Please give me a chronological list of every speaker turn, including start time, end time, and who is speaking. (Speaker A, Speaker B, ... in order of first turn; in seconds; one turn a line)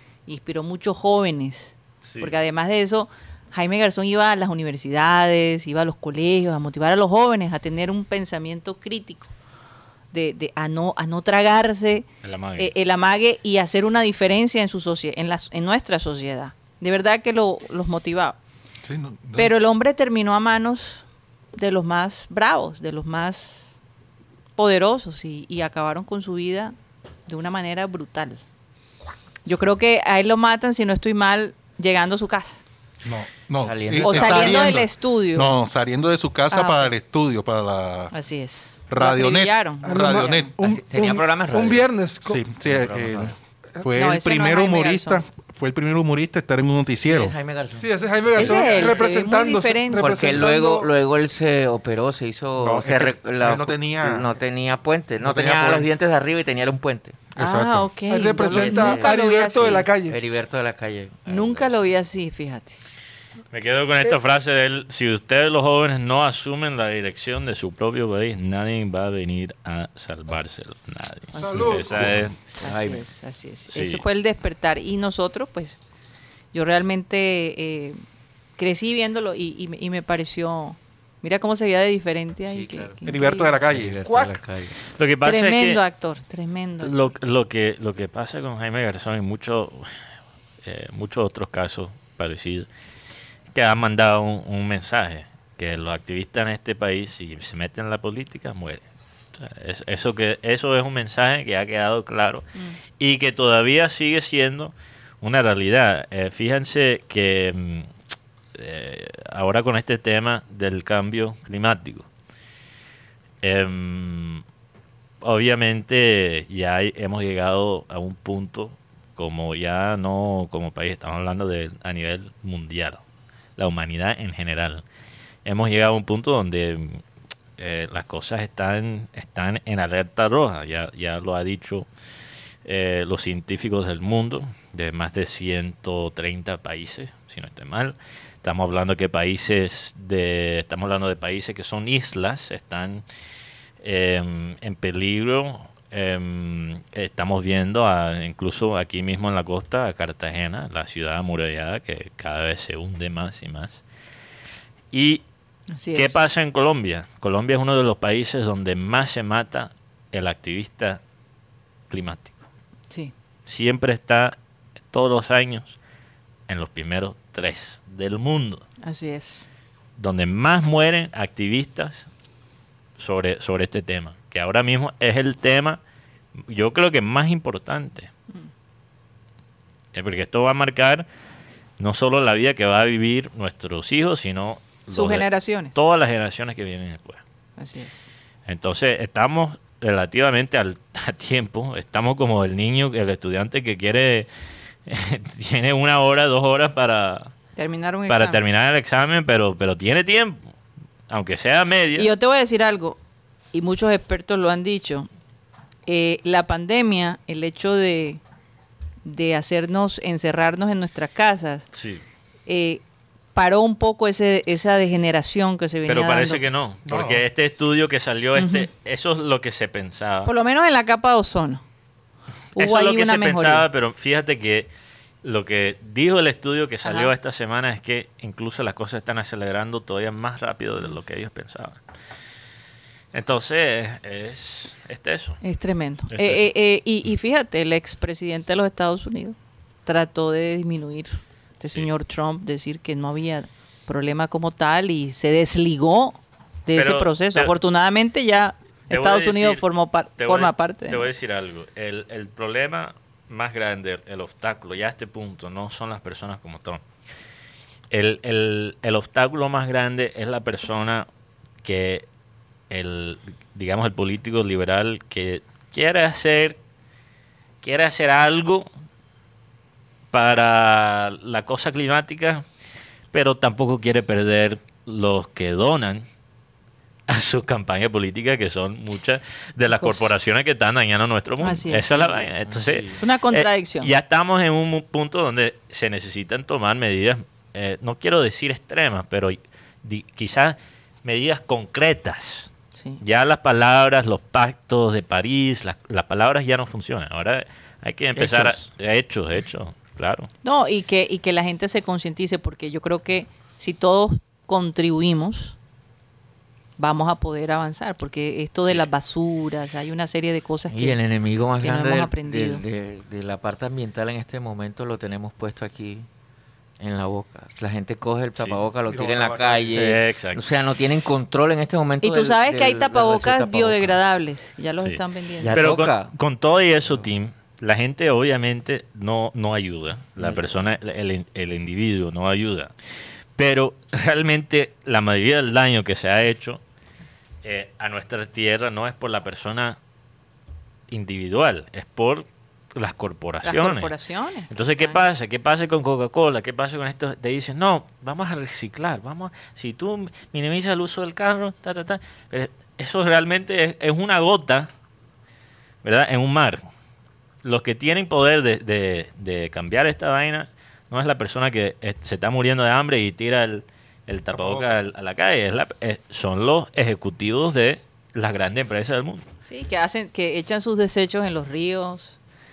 Speaker A: 0.3-9.3
Speaker B: 2.0-2.3
Speaker A: 10.1-18.4
Speaker B: 12.2-12.7
Speaker C: 18.8-19.5
Speaker A: 19.4-21.0
Speaker A: 21.6-23.8
Speaker A: 24.6-26.7
Speaker A: 27.3-28.4
Speaker A: 29.4-32.6
Speaker C: 33.0-38.1
Speaker D: 33.6-34.7
Speaker A: 34.0-35.5
Speaker A: 36.5-36.9
Speaker A: 38.1-40.5
Speaker C: 38.9-40.5
Speaker E: 39.8-42.4
Speaker D: 40.6-41.9
Speaker C: 42.2-47.3
Speaker D: 42.6-43.3
Speaker A: 43.9-45.2
Speaker D: 47.0-49.0
Speaker E: 47.8-50.9
Speaker A: 48.4-50.1
Speaker D: 49.9-57.2
Speaker C: 52.6-54.3
Speaker C: 55.2-55.9
Speaker C: 57.3-57.9
Speaker A: 57.4-59.9
Speaker E: 58.1-60.2
Speaker D: 58.4-59.1
Speaker D: 59.6-61.8
Speaker A: 61.3-62.8
Speaker B: 63.5-72.4
Speaker A: 71.3-71.7
Speaker E: 71.3-72.1
Speaker A: 72.6-75.8
Speaker D: 72.6-73.0
Speaker B: 73.7-74.0
Speaker A: 76.5-78.0
Speaker A: 78.6-83.5
Speaker D: 82.5-83.0
Speaker C: 83.0-84.0
Speaker D: 83.7-84.8
Speaker E: 84.0-84.4
Speaker B: 84.9-85.8
Speaker A: 85.2-87.1
Speaker B: 86.8-89.9
Speaker B: 90.6-92.7
Speaker B: 93.5-98.8
Speaker B: 99.3-107.9
Speaker B: 108.5-112.0
Speaker B: 113.4-114.4
Speaker B: 115.2-123.0
Speaker B: 123.6-124.8
Speaker B: 125.4-127.0
Speaker B: 127.6-131.9
Speaker B: 132.6-143.0
Speaker B: 143.8-153.8
Speaker B: 154.9-155.2
Speaker A: 155.7-156.2
Speaker B: 155.9-161.0
Speaker B: 161.9-162.4
Speaker B: 163.4-164.3
Speaker B: 164.9-165.8
Speaker B: 166.5-168.6
Speaker A: 168.8-169.5
Speaker B: 169.9-172.1
Speaker B: 173.0-175.8
Speaker B: 176.4-178.1
Speaker B: 179.9-181.1
Speaker B: 181.8-187.2
Speaker A: 184.9-185.7
Speaker A: 187.6-188.0
Speaker B: 188.4-194.3
Speaker B: 194.8-197.3
Speaker A: 197.6-198.4
Speaker B: 198.1-200.4
Speaker B: 201.1-202.1
Speaker A: 201.9-203.0
Speaker A: 203.5-205.1
Speaker A: 205.9-208.2
Speaker A: 209.0-211.7
Speaker B: 211.7-212.0
Speaker A: 212.5-212.8
Speaker A: 213.3-216.4
Speaker B: 215.8-220.3
Speaker C: 216.9-217.2
Speaker A: 218.3-218.7
Speaker A: 220.2-221.6
Speaker A: 222.6-223.7
Speaker B: 222.6-224.7
Speaker B: 225.2-231.8
Speaker A: 226.8-227.1
Speaker B: 233.1-235.4
Speaker A: 235.4-251.1
Speaker B: 236.1-236.4
Speaker B: 246.7-247.5
Speaker B: 248.9-249.6
Speaker B: 250.2-256.8
Speaker B: 257.9-261.1
Speaker B: 261.6-262.1
Speaker B: 262.7-266.6
Speaker B: 267.6-268.7
Speaker B: 270.1-272.4
Speaker B: 273.1-276.0
Speaker B: 277.1-292.5
Speaker A: 279.7-280.1
Speaker A: 281.4-282.1
Speaker D: 281.9-283.0
Speaker A: 283.0-283.9
Speaker A: 292.7-293.0
Speaker B: 293.0-300.3
Speaker D: 298.1-298.6
Speaker A: 300.4-305.6
Speaker A: 306.8-311.0
Speaker D: 310.7-316.1
Speaker A: 311.6-312.6
Speaker D: 316.8-324.0
Speaker C: 318.9-319.8
Speaker B: 319.8-320.4
Speaker A: 322.0-325.6
Speaker D: 325.4-326.1
Speaker B: 325.5-332.7
Speaker B: 333.4-336.6
Speaker B: 337.4-339.8
Speaker B: 340.9-343.9
Speaker A: 343.4-345.0
Speaker B: 344.5-354.7
Speaker B: 355.8-356.6
Speaker B: 357.4-369.2
Speaker C: 364.3-364.7
Speaker A: 369.5-372.2